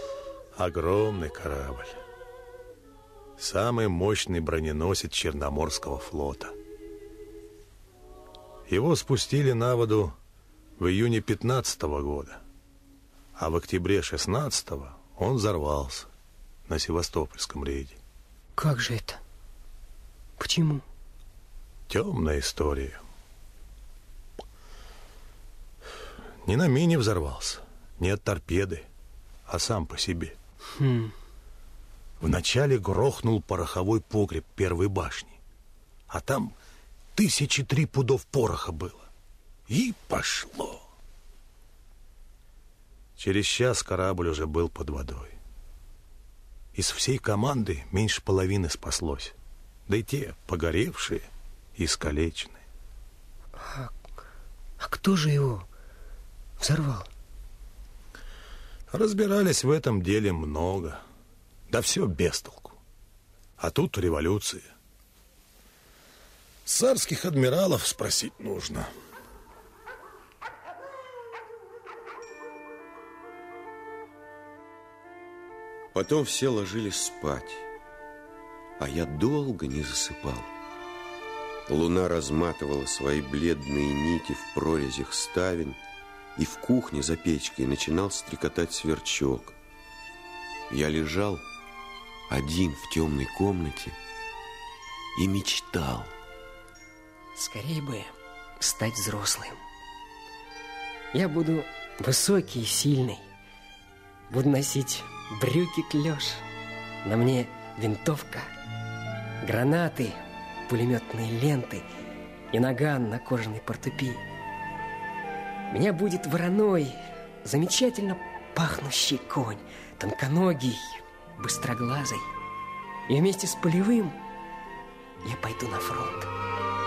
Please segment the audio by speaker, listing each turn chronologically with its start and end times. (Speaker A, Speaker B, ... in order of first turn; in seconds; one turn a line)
Speaker A: 0.6-2.0
Speaker A: 3.4-6.5
Speaker A: 8.7-10.2
Speaker A: 10.8-12.4
Speaker A: 13.4-16.1
Speaker A: 16.7-18.0
Speaker B: 18.6-19.2
Speaker B: 20.4-20.8
Speaker A: 21.9-23.0
Speaker A: 26.4-28.9
Speaker A: 29.5-30.4
Speaker B: 30.8-31.1
Speaker A: 32.2-35.4
Speaker A: 36.1-36.5
Speaker A: 37.1-39.1
Speaker A: 39.7-40.8
Speaker A: 43.2-45.4
Speaker A: 46.7-49.3
Speaker A: 49.9-52.6
Speaker B: 53.6-53.9
Speaker B: 54.8-55.7
Speaker B: 56.6-57.1
Speaker A: 58.9-61.0
Speaker A: 61.7-62.8
Speaker A: 63.6-64.7
Speaker A: 66.7-68.9
Speaker C: 75.9-77.7
Speaker C: 78.8-80.5
Speaker C: 81.7-85.8
Speaker C: 86.4-89.5
Speaker C: 90.7-91.5
Speaker C: 92.3-94.0
Speaker C: 95.2-96.1
Speaker B: 97.3-99.6
Speaker B: 101.1-103.2
Speaker B: 104.3-106.4
Speaker B: 107.0-108.5
Speaker B: 109.4-111.8
Speaker B: 112.5-114.2
Speaker B: 115.7-122.3
Speaker B: 123.1-124.2
Speaker B: 125.2-126.3